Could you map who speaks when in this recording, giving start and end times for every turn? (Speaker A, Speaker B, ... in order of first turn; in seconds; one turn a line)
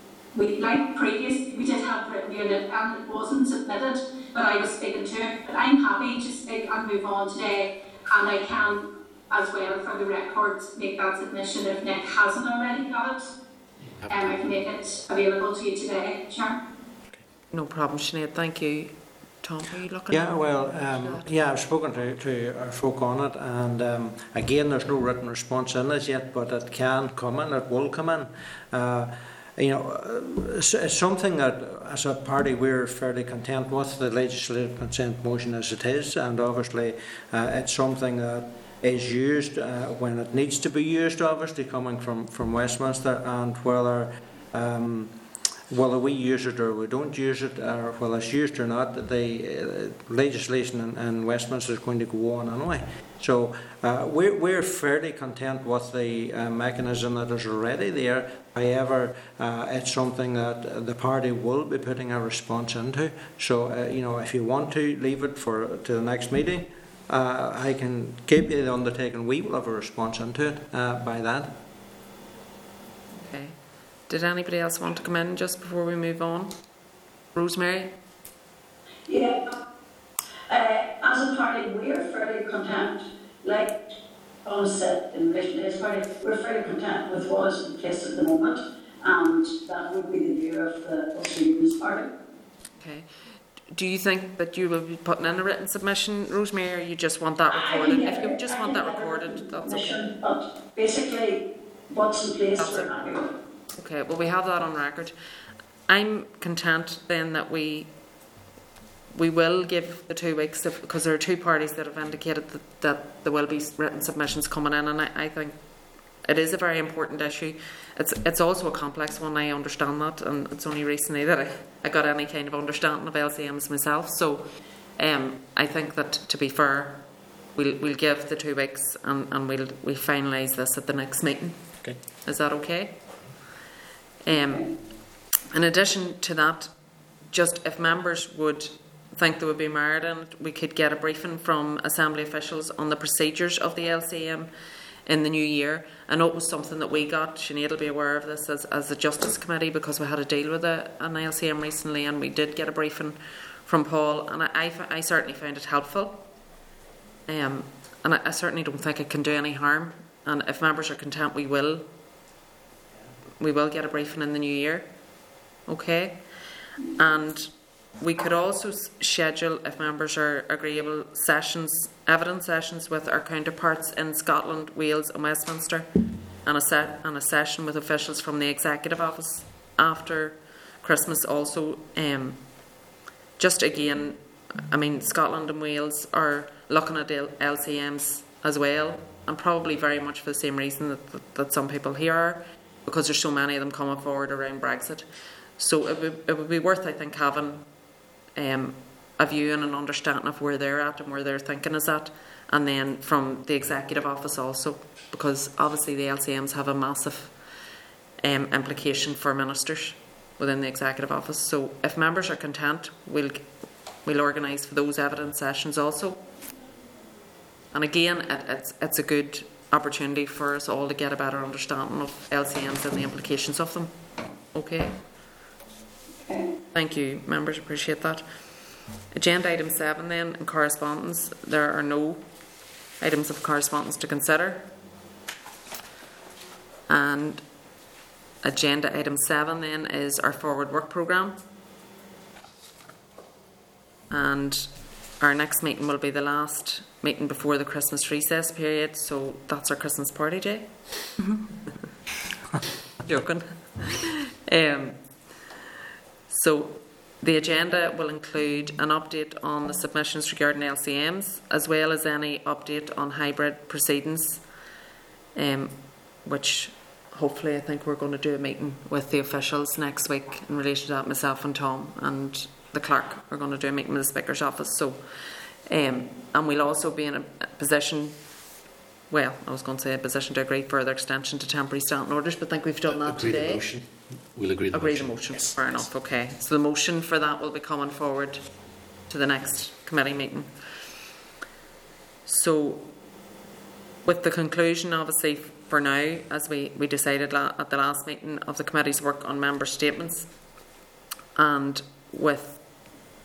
Speaker A: 0.3-13.3
Speaker B: 14.0-14.3
Speaker A: 14.1-16.6
Speaker C: 17.5-21.3
Speaker D: 20.1-45.1
Speaker D: 45.7-71.6
Speaker C: 73.1-76.5
Speaker C: 77.3-77.9
Speaker E: 79.1-79.6
Speaker E: 80.5-83.8
Speaker E: 84.5-92.1
Speaker C: 92.8-93.1
Speaker C: 93.7-100.0
Speaker E: 97.5-103.3
Speaker C: 102.6-102.9
Speaker C: 103.8-105.1
Speaker C: 105.9-107.9
Speaker C: 109.1-115.7
Speaker C: 116.2-133.0
Speaker C: 134.2-134.7
Speaker E: 134.3-134.7
Speaker C: 135.5-136.7
Speaker C: 137.3-144.5
Speaker C: 145.1-156.3
Speaker C: 157.3-161.9
Speaker C: 163.4-164.9
Speaker C: 165.7-166.2
Speaker C: 167.0-175.9
Speaker C: 176.4-182.5
Speaker C: 183.4-197.7
Speaker C: 198.4-207.4
Speaker C: 208.2-216.2
Speaker C: 217.7-223.9
Speaker C: 224.5-225.0
Speaker E: 226.2-226.5
Speaker C: 226.7-228.2
Speaker C: 229.1-232.2
Speaker C: 233.0-234.7
Speaker C: 236.9-237.5
Speaker C: 238.4-241.4
Speaker C: 244.1-251.9
Speaker C: 253.0-255.0
Speaker C: 256.3-264.4
Speaker C: 265.4-278.2
Speaker C: 279.1-283.6
Speaker B: 282.9-285.9
Speaker C: 284.7-288.5
Speaker C: 289.0-290.8
Speaker C: 292.3-292.9
Speaker C: 294.0-300.3
Speaker C: 301.4-302.6